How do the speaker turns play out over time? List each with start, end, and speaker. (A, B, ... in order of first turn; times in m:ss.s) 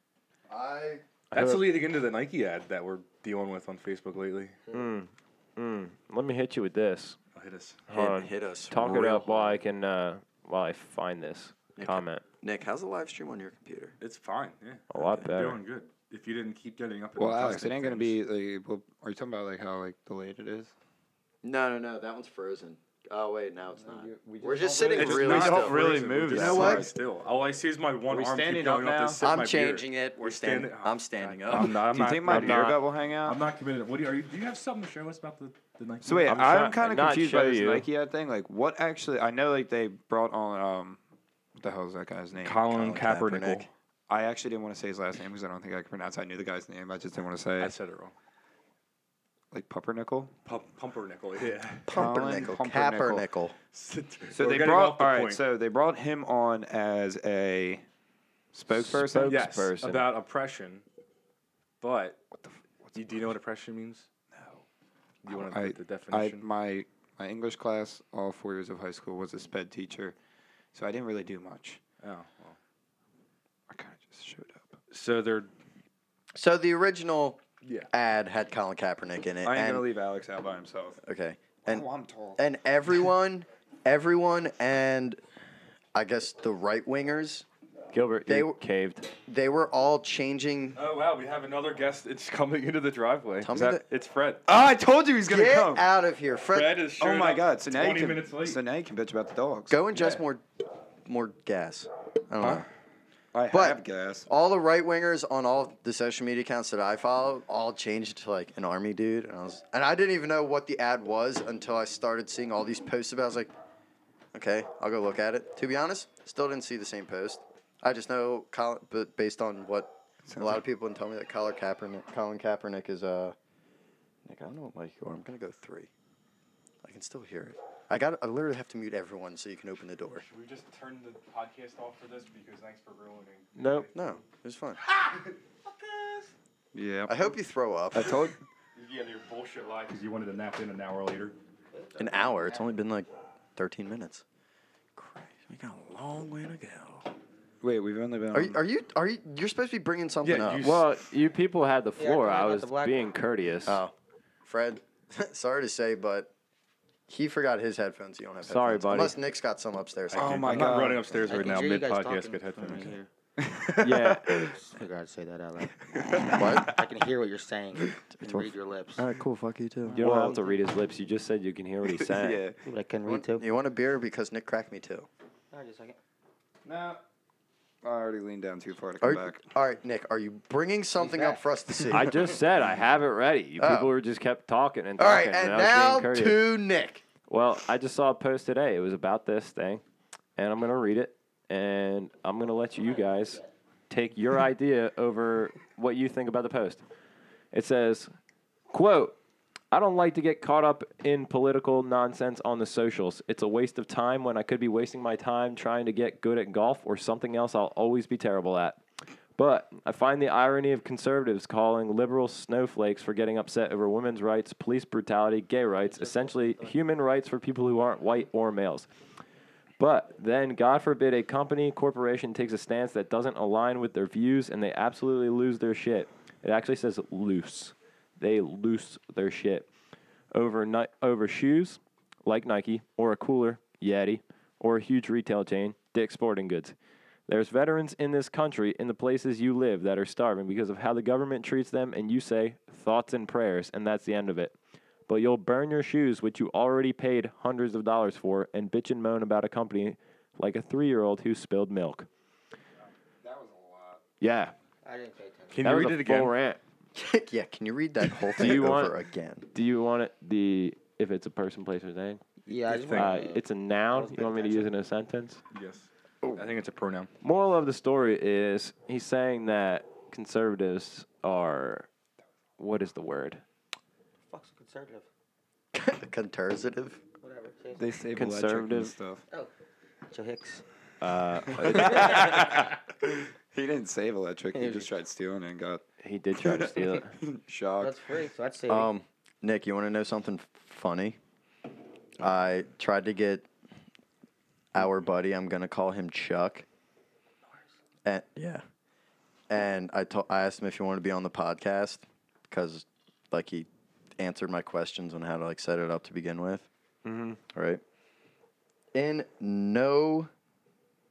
0:00.5-0:01.0 A
0:01.3-0:01.6 B
0:01.3-0:04.6 C
0:04.7-0:07.2 B
0:07.3-0:07.8 C
0:07.9-0:12.2 B
0:07.9-0:09.6 A
0:11.8-0:14.0 A
0:14.0-0:18.2 C
0:14.9-0:15.6 B
0:14.9-0:15.3 A
0:17.2-0:20.7 D
0:21.4-0:26.9 A
0:23.8-0:26.9 D
0:24.9-0:37.0 C
0:28.1-0:29.2 D
0:29.2-0:31.8 A
0:31.5-0:33.4 D
0:32.2-0:32.8 B
0:36.0-0:41.0 D
0:36.8-0:37.8 B
0:41.6-0:42.6 D
0:42.4-0:43.7 C
0:42.7-0:43.7 A
0:44.1-0:47.7 D
0:47.6-0:48.1 C
0:49.5-0:50.3 D
0:50.4-0:51.9 C
0:51.9-0:53.6 A
0:51.9-0:53.2 D
0:53.7-0:55.4 C
0:54.3-0:57.8 D
0:58.5-0:59.5 D
0:58.7-1:00.1 B
0:59.3-1:00.8 C
1:01.8-1:02.2 C
1:02.3-1:03.3 D
1:03.0-1:04.1 C
1:04.3-1:04.6 D
1:05.2-1:06.4 C
1:05.3-1:10.1 D
1:10.7-1:11.8 D
1:12.0-1:12.6 C
1:13.7-1:14.8 D
1:14.9-1:15.5 C
1:16.3-1:19.8 A
1:17.6-1:17.9 C
1:19.4-1:21.0 D
1:21.0-1:25.2 A
1:21.7-1:22.4 D
1:25.9-1:27.4 A
1:27.9-1:29.1 B
1:28.3-1:28.6 A
1:29.2-1:30.8 A
1:30.8-1:34.4 C
1:33.4-1:33.8 A
1:34.5-1:35.8 D
1:35.2-1:36.8 A
1:36.5-1:38.6 C
1:37.0-1:39.7 D
1:39.7-1:40.4 A
1:39.9-1:40.2 C
1:41.0-1:42.7 A
1:42.4-1:42.7 C
1:43.3-1:44.2 D
1:43.5-1:53.5 A
1:54.3-2:03.3 A
2:00.2-2:00.6 D
2:04.2-2:05.9 A
2:06.8-2:10.2 A
2:10.2-2:14.0 C
2:13.6-2:13.9 B
2:13.9-2:14.8 A
2:14.8-2:16.3 C
2:16.7-2:17.2 D
2:17.1-2:18.3 A
2:17.9-2:18.4 D
2:18.8-2:21.4 C
2:21.7-2:22.7 E
2:22.0-2:24.2 A
2:25.0-2:27.1 A
2:27.6-2:28.6 D
2:28.3-2:30.7 A
2:30.2-2:30.9 C
2:30.6-2:33.8 B
2:32.0-2:33.1 E
2:33.6-2:33.9 A
2:34.4-2:36.3 A
2:37.1-2:40.7 A
2:38.4-2:39.1 B
2:40.1-2:43.0 C
2:40.1-2:41.1 D
2:41.2-2:43.1 E
2:43.4-2:44.5 D
2:43.8-2:44.2 B
2:44.6-2:45.7 E
2:45.9-2:46.7 D
2:46.3-2:46.7 A
2:46.7-2:49.1 E
2:48.2-2:50.3 A
2:50.0-2:52.4 B
2:50.0-2:50.4 D
2:51.8-2:52.6 D
2:52.6-2:53.4 E
2:53.0-2:55.1 A
2:55.5-2:56.0 E
2:56.6-2:57.0 D
2:57.8-2:59.4 D
2:59.0-3:02.3 A
3:01.0-3:01.4 E
3:01.9-3:06.4 B
3:03.6-3:03.9 A
3:05.0-3:07.0 A
3:07.3-3:09.8 B
3:10.4-3:16.8 B
3:12.7-3:13.5 E
3:17.5-3:18.1 B
3:18.7-3:19.2 B
3:19.7-3:28.8 B
3:29.4-3:38.9 B
3:35.8-3:36.8 E
3:39.8-3:49.7 B
3:50.3-3:56.7 B
3:57.3-4:04.5 B
4:05.1-4:12.1 B
4:13.2-4:14.0 D
4:14.2-4:14.5 B
4:14.8-4:15.6 E
4:15.5-4:16.3 C
4:15.6-4:16.6 B
4:16.9-4:19.5 A
4:18.4-4:18.9 B
4:19.5-4:22.2 B
4:22.4-4:24.7 E
4:22.7-4:23.2 C
4:22.9-4:25.4 B
4:25.5-4:27.1 C
4:26.2-4:26.5 A
4:27.2-4:31.9 B
4:32.6-4:33.4 B
4:34.3-4:35.1 E
4:35.7-4:37.0 A
4:37.2-4:37.9 E
4:37.8-4:39.2 D
4:38.1-4:38.9 B
4:40.1-4:40.6 E
4:41.0-4:42.4 B
4:41.6-4:45.8 D
4:41.7-4:42.3 E
4:44.5-4:44.9 E
4:46.0-4:47.1 B
4:46.4-4:48.1 D
4:47.8-4:48.9 E
4:48.7-4:51.2 A
4:52.2-4:53.5 A
4:54.7-4:56.6 A
4:58.0-4:58.6 A
4:59.5-5:06.7 A
5:07.0-5:07.4 B
5:07.5-5:07.8 A
5:08.9-5:10.3 A